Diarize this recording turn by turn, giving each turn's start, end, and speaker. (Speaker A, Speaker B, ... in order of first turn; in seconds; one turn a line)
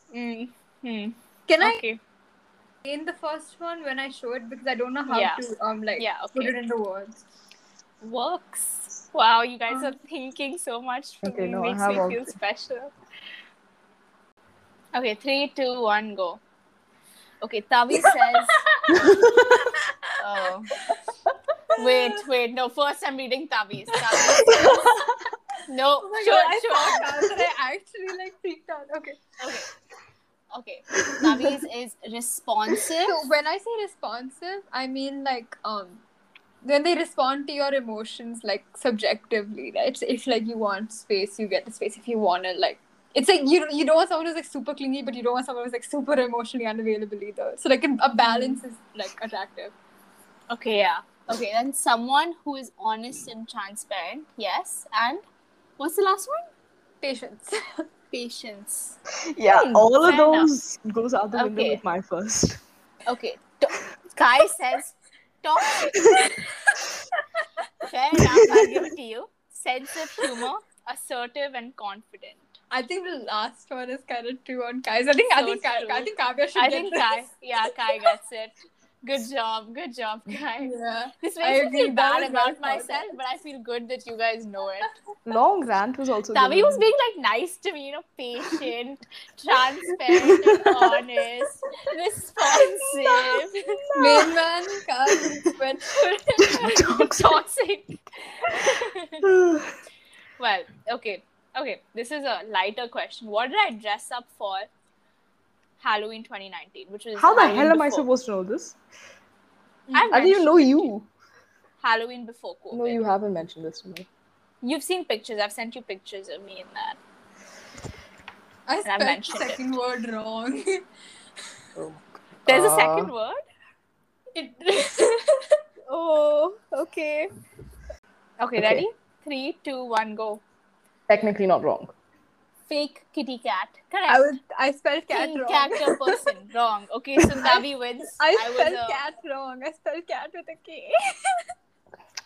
Speaker A: 0.1-2.0
Speaker B: 1.5-1.8
Speaker B: 2.8-7.2
Speaker A: 5.1-5.5
Speaker A: 6.0-6.6
Speaker A: 8.0-12.9
Speaker C: 11.2-12.3
Speaker A: 14.9-16.4
Speaker A: 17.4-19.1
Speaker C: 18.9-19.6
Speaker A: 20.2-20.8
Speaker B: 21.8-22.2
Speaker A: 21.8-24.7
Speaker B: 24.1-25.1
Speaker C: 24.4-24.8
Speaker A: 25.7-27.4
Speaker B: 26.0-29.3
Speaker A: 29.4-29.7
Speaker A: 30.5-33.2
Speaker C: 31.2-31.5
Speaker B: 33.0-36.0
Speaker B: 36.6-49.7
Speaker A: 48.2-48.6
Speaker A: 50.5-55.2
Speaker A: 55.8-56.5
Speaker B: 57.0-57.9
Speaker A: 58.1-59.0
Speaker C: 59.3-62.6
Speaker A: 59.5-60.5
Speaker A: 61.4-61.8
Speaker A: 63.1-66.2
Speaker C: 65.9-66.3
Speaker A: 67.8-72.5
Speaker C: 68.2-68.9
Speaker B: 72.7-77.2
Speaker A: 75.3-85.0
Speaker B: 80.6-83.2
Speaker C: 85.2-86.8
Speaker A: 86.3-93.9
Speaker C: 90.2-91.0
Speaker C: 93.2-94.4
Speaker B: 94.0-96.2
Speaker C: 95.2-95.4
Speaker A: 96.0-99.3
Speaker C: 96.4-97.5
Speaker C: 99.2-99.8
Speaker A: 100.4-104.7
Speaker A: 105.8-108.1
Speaker C: 107.2-108.8
Speaker B: 109.9-110.2
Speaker A: 109.9-110.9
Speaker C: 110.1-111.1
Speaker A: 111.8-113.0
Speaker C: 112.7-114.1
Speaker A: 114.6-117.0
Speaker B: 118.7-120.8
Speaker A: 118.8-119.8
Speaker C: 121.8-123.1
Speaker A: 122.5-123.4
Speaker B: 124.3-125.5
Speaker A: 125.9-127.3
Speaker A: 128.4-130.4
Speaker C: 128.6-128.8
Speaker C: 131.1-131.9
Speaker A: 132.7-134.4
Speaker B: 134.1-136.2
Speaker A: 135.1-139.0
Speaker B: 138.2-141.0